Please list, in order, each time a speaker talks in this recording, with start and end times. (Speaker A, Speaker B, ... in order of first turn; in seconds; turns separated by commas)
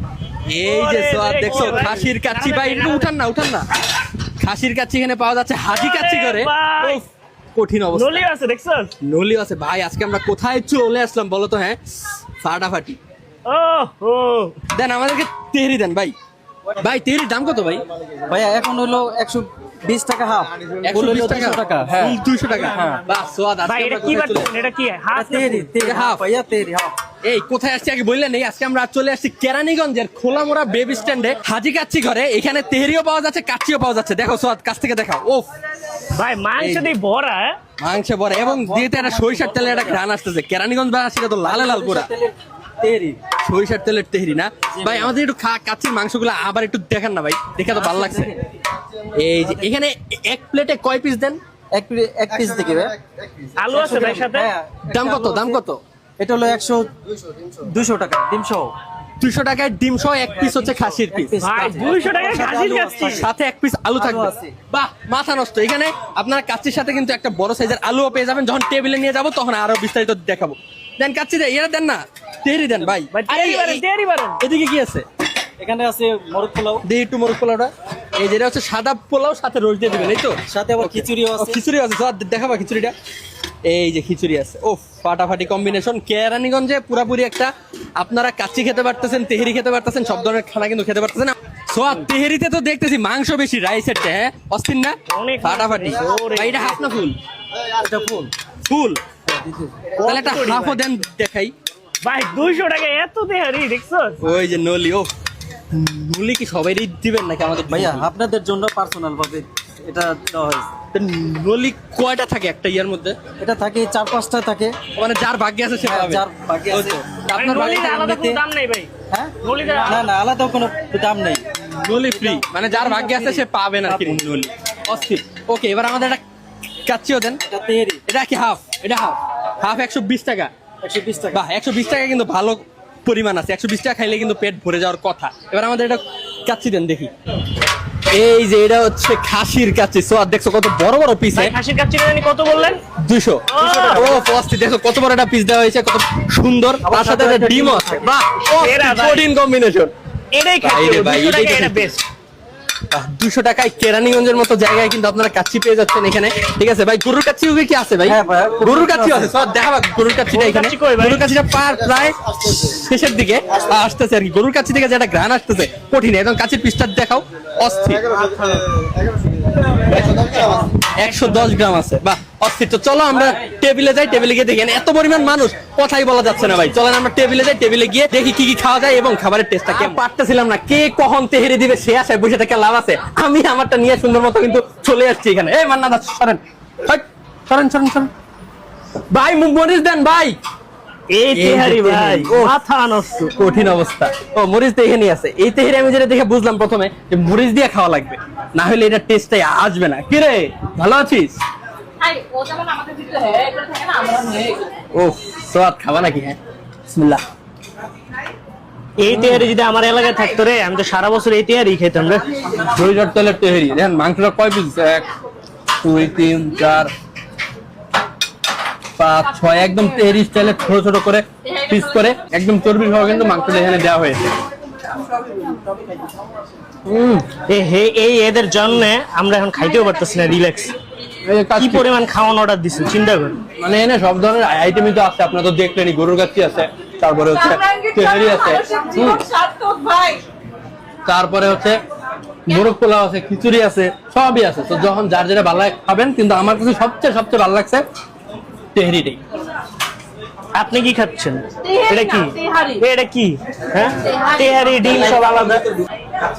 Speaker A: 0.5-3.6, Speaker B: 0.6-3.1, Speaker A: 4.4-7.0, Speaker B: 5.7-7.0, Speaker A: 7.5-8.2, Speaker B: 7.9-8.9, Speaker A: 9.0-11.8, Speaker A: 12.4-13.0, Speaker B: 13.5-14.6, Speaker A: 14.7-16.1, Speaker A: 16.8-17.8, Speaker C: 18.3-22.1, Speaker A: 20.9-24.5, Speaker B: 23.6-25.7, Speaker C: 25.1-26.9, Speaker A: 25.8-26.2, Speaker A: 27.2-35.5, Speaker B: 36.1-37.6, Speaker A: 36.6-36.9, Speaker A: 37.8-42.1, Speaker C: 38.3-40.0, Speaker C: 41.4-43.2, Speaker A: 43.4-48.3, Speaker C: 44.7-45.1, Speaker C: 47.7-48.3, Speaker A: 49.1-51.4, Speaker C: 51.7-55.6, Speaker B: 53.6-54.5, Speaker A: 54.9-55.8, Speaker C: 56.2-56.9, Speaker C: 57.4-58.7, Speaker A: 59.2-61.9, Speaker C: 60.8-63.3, Speaker B: 61.4-63.2, Speaker A: 62.9-73.8, Speaker C: 64.0-64.5, Speaker B: 73.1-74.4, Speaker A: 74.4-75.0, Speaker C: 75.6-76.8, Speaker A: 76.8-82.9, Speaker C: 79.9-81.6, Speaker A: 83.7-97.2, Speaker B: 95.1-96.8, Speaker C: 97.7-98.3, Speaker A: 98.6-99.0, Speaker C: 99.2-99.9, Speaker B: 100.0-100.8, Speaker A: 100.0-101.5, Speaker B: 102.0-104.2, Speaker A: 104.2-105.1, Speaker A: 105.7-108.1, Speaker C: 107.7-110.7, Speaker A: 110.9-113.2, Speaker C: 113.4-114.7, Speaker A: 115.0-118.1, Speaker C: 115.8-118.4, Speaker B: 117.3-118.9, Speaker C: 119.1-124.3, Speaker B: 119.4-120.0, Speaker A: 121.6-126.2, Speaker A: 126.8-127.4, Speaker C: 127.5-128.0, Speaker A: 128.1-130.5, Speaker C: 130.8-131.4, Speaker A: 131.3-137.1, Speaker A: 138.1-141.6, Speaker B: 141.3-142.8, Speaker A: 142.9-149.9, Speaker B: 143.5-144.2, Speaker C: 146.8-148.0, Speaker B: 148.5-149.2, Speaker B: 150.3-152.0, Speaker A: 150.6-151.8, Speaker A: 152.9-168.1, Speaker C: 158.0-159.3, Speaker B: 160.3-161.2, Speaker B: 168.3-168.6, Speaker A: 169.8-188.1, Speaker A: 189.1-190.4, Speaker B: 191.1-193.3, Speaker A: 191.3-192.6, Speaker A: 193.3-201.4, Speaker D: 202.7-204.4, Speaker A: 204.9-206.4, Speaker A: 206.9-207.2, Speaker B: 209.0-212.2, Speaker A: 209.1-209.4, Speaker A: 212.6-215.1, Speaker A: 215.8-216.9, Speaker A: 219.0-224.3, Speaker A: 226.8-227.3, Speaker B: 227.3-230.7, Speaker A: 231.2-231.9, Speaker B: 231.6-233.4, Speaker A: 233.6-239.3, Speaker D: 239.8-240.1, Speaker A: 241.1-241.8, Speaker A: 242.4-247.8, Speaker A: 248.7-249.2, Speaker B: 250.6-255.7